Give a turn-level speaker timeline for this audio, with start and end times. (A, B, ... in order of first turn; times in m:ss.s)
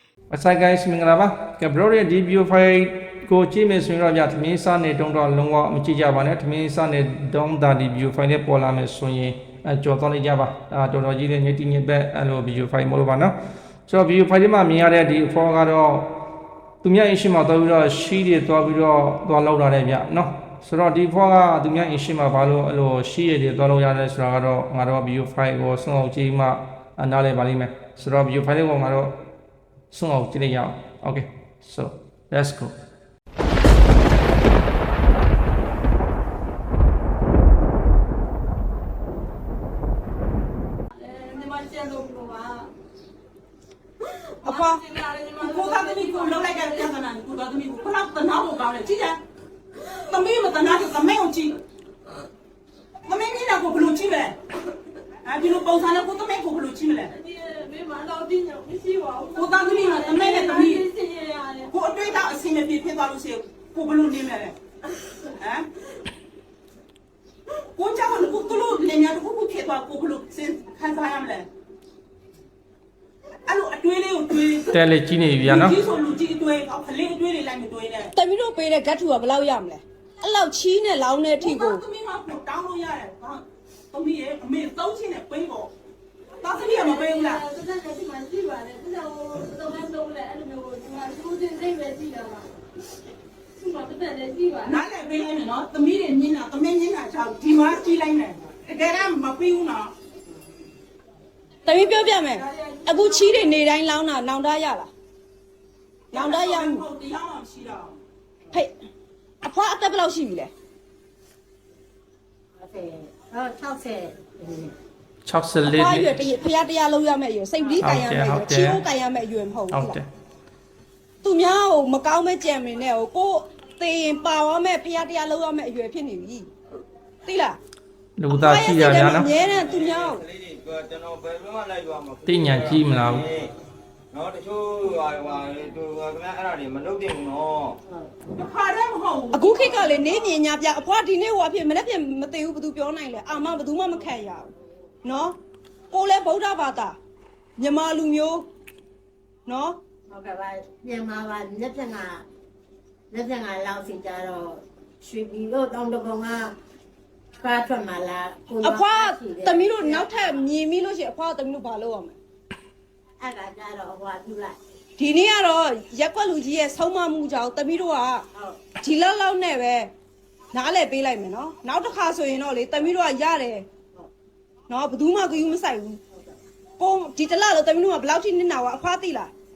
0:00.3-0:13.3 A
0:13.9-0:16.1 A
0:16.8-0:29.1 A
0:29.9-0:32.7 A
0:40.9-0:42.7 B
0:44.4-0:47.0 B
0:44.4-0:44.8 C
0:45.4-0:49.2 D
0:50.1-0:51.6 D
0:53.1-0:54.4 D
0:55.2-0:57.1 D
0:57.2-1:01.7 B
0:59.3-1:00.8 D
1:01.7-1:04.6 D
1:05.4-1:05.6 D
1:07.8-1:11.4 D
1:13.5-1:14.7 D
1:14.7-1:15.8 A
1:15.4-1:18.1 D
1:18.1-1:21.8 C
1:21.4-1:25.7 D
1:26.4-1:27.4 D
1:26.6-1:32.5 B
1:33.6-1:34.7 B
1:34.6-1:39.9 D
1:41.6-1:44.9 C
1:42.9-1:43.4 B
1:46.1-1:46.8 C
1:46.1-1:48.0 D
1:49.4-1:50.5 C
1:52.6-1:54.7 E
1:55.2-1:56.1 A
1:55.6-2:00.0 C
1:57.8-1:58.8 A
1:59.7-2:00.0 A
2:01.2-2:06.5 C
2:07.2-2:07.6 C
2:08.2-2:09.3 A
2:08.3-2:10.2 C
2:09.3-2:13.5 F
2:12.2-2:13.2 A
2:14.1-2:17.8 F
2:18.4-2:20.3 D
2:19.3-2:24.5 C
2:25.0-2:25.4 C
2:25.9-2:27.0 C
2:27.6-2:28.4 C
2:29.5-2:29.8 C
2:30.1-2:32.2 E
2:33.1-2:36.6 E
2:37.4-2:40.1 E
2:38.6-2:42.2 C
2:43.2-2:44.6 E
2:45.0-2:49.9 C
2:48.3-2:48.7 E
2:50.5-2:53.6 C
2:54.7-2:56.0 C
2:56.8-2:59.3 C